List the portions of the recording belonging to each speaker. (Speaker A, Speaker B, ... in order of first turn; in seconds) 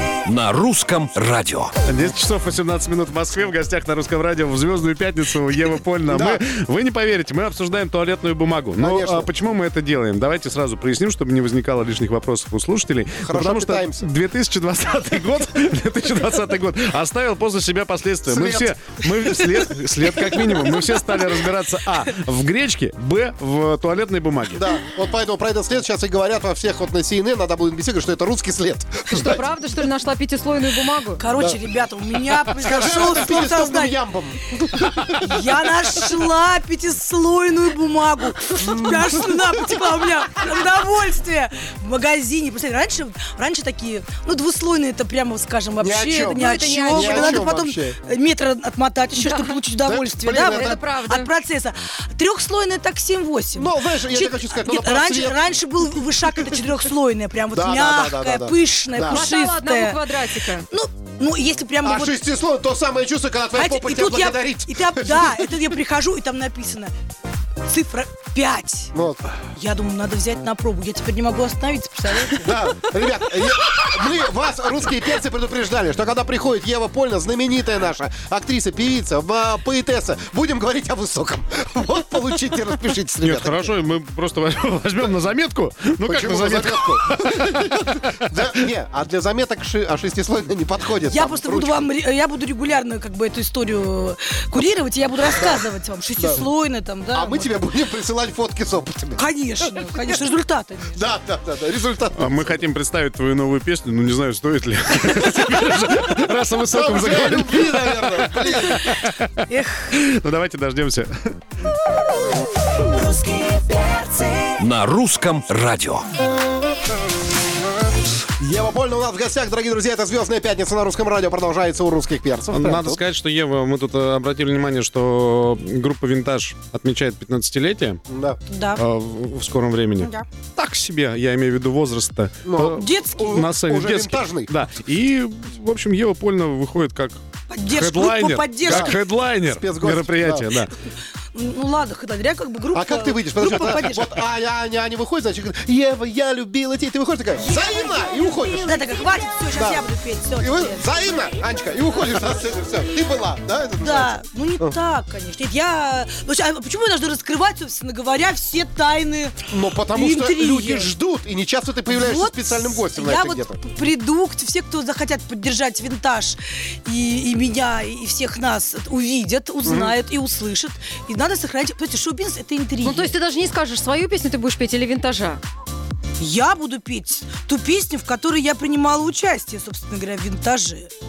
Speaker A: 0.2-1.7, 114.6-116.0
Speaker B: 1.8-24.6, 83.2-88.3, 102.2-111.1, 122.5-128.0, 128.8-140.7
Speaker C: 6.1-6.4, 8.8-9.3, 13.2-14.1, 18.2-19.4, 24.5-29.4, 32.6-35.3, 38.6-39.4, 45.8-48.0, 49.8-50.8, 53.5-55.4, 57.5-59.3, 61.8-65.5, 68.9-69.3, 72.3-83.7, 86.0-91.9, 96.2-96.5, 97.1-99.2, 100.9-102.5, 106.7-108.8, 118.4-123.0, 128.1-128.4, 132.4-134.5, 138.6-140.5, 142.7-148.8, 149.5-149.8, 150.4-154.8, 159.5-163.6, 169.6-169.9
Speaker D: 29.1-31.2, 46.2-47.4, 49.2-49.5, 50.3-51.3, 59.0-60.6, 172.8-175.4
Speaker E: 31.2-34.0, 35.1-60.1, 60.7-62.1, 63.5-66.9, 67.6-68.9, 69.5-72.5, 91.1-97.5, 99.2-101.0, 109.5-109.9, 113.0-114.3, 128.5-128.8, 130.0-130.2, 132.8-133.3, 137.5-139.0, 141.3-144.2, 147.4-150.9, 153.8-160.9, 161.9-173.1, 176.2-180.9